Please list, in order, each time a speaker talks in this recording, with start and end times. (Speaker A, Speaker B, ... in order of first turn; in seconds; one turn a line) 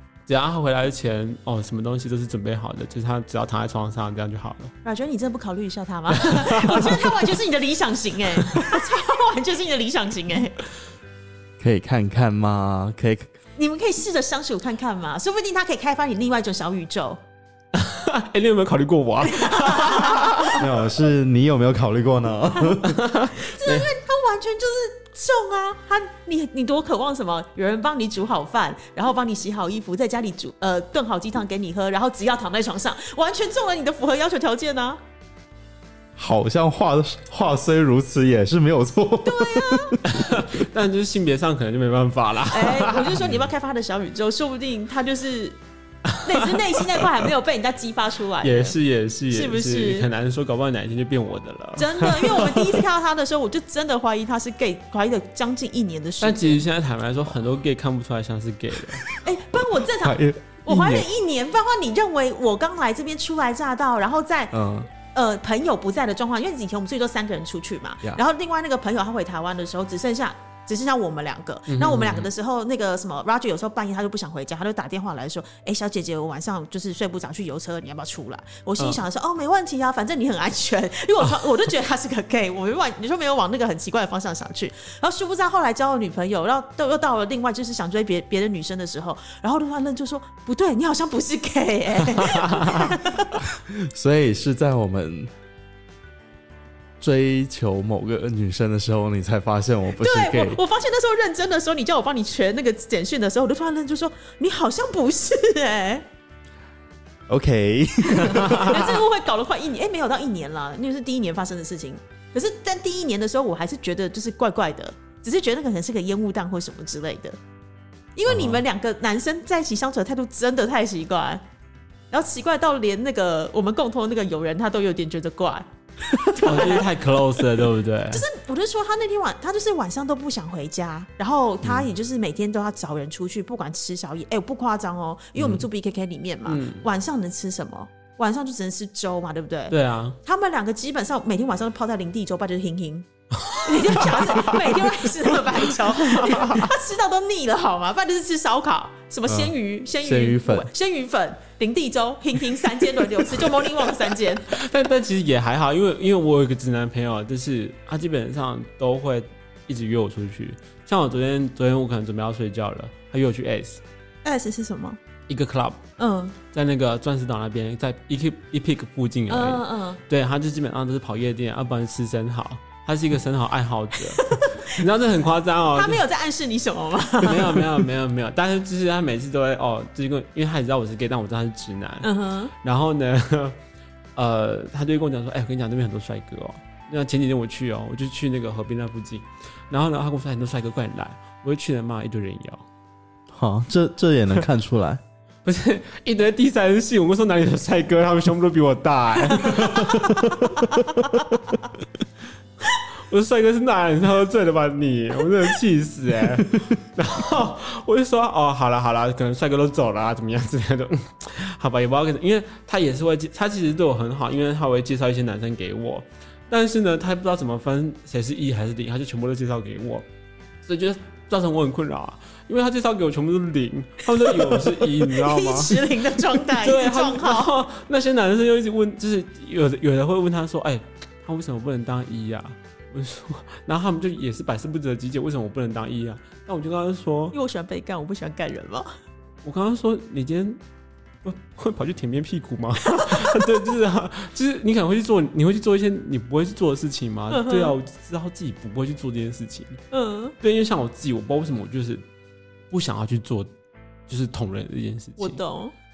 Speaker A: 0.3-4.7
Speaker B: 4.8-10.6
Speaker A: 6.2-7.2
Speaker A: 8.3-8.8
Speaker C: 11.6-13.3
Speaker B: 13.6-17.2
Speaker A: 17.7-20.7
Speaker B: 19.2-20.6
Speaker C: 20.5-23.0
Speaker A: 22.9-23.9
Speaker B: 23.4-35.0
Speaker C: 36.1-40.4
Speaker B: 39.2-40.0
Speaker A: 40.0-43.2
Speaker B: 42.5-45.6
Speaker C: 43.2-43.5
Speaker B: 46.2-48.8
Speaker A: 48.4-52.8
Speaker B: 49.3-50.1
Speaker B: 51.8-56.6
Speaker A: 56.2-59.0
Speaker B: 59.2-93.4
Speaker C: 60.0-61.1
Speaker C: 64.5-64.9
Speaker A: 71.7-72.3
Speaker C: 93.4-95.3
Speaker C: 97.0-100.6
Speaker B: 100.0-106.0
Speaker C: 107.3-109.0
Speaker B: 108.2-117.4
Speaker B: 118.2-121.4
Speaker C: 118.2-118.6
Speaker B: 122.1-126.9
Speaker A: 126.4-128.2
Speaker B: 128.1-143.1
Speaker C: 131.6-131.9
Speaker A: 135.4-135.6
Speaker A: 136.4-136.9
Speaker A: 139.7-140.2
Speaker A: 143.4-146.7
Speaker B: 143.6-154.4
Speaker C: 149.3-150.7
Speaker A: 154.5-163.8
Speaker B: 164.2-165.0
Speaker A: 165.3-165.8
Speaker B: 166.0-166.3
Speaker A: 166.5-176.0
Speaker B: 169.3-170.0
Speaker B: 174.2-174.8
Speaker B: 175.7-177.8
Speaker A: 177.2-183.6
Speaker B: 182.0-182.5
Speaker A: 184.2-192.7
Speaker C: 193.3-195.0
Speaker A: 195.4-200.8
Speaker B: 199.4-199.7
Speaker A: 203.0-220.0
Speaker A: 220.6-237.3
Speaker B: 224.4-227.5
Speaker B: 237.3-238.9
Speaker A: 239.4-240.6
Speaker A: 241.2-249.8
Speaker B: 242.9-243.6
Speaker B: 247.3-247.8
Speaker B: 249.9-250.3
Speaker A: 250.4-252.0
Speaker A: 252.7-253.5
Speaker A: 254.1-255.4
Speaker B: 255.2-255.7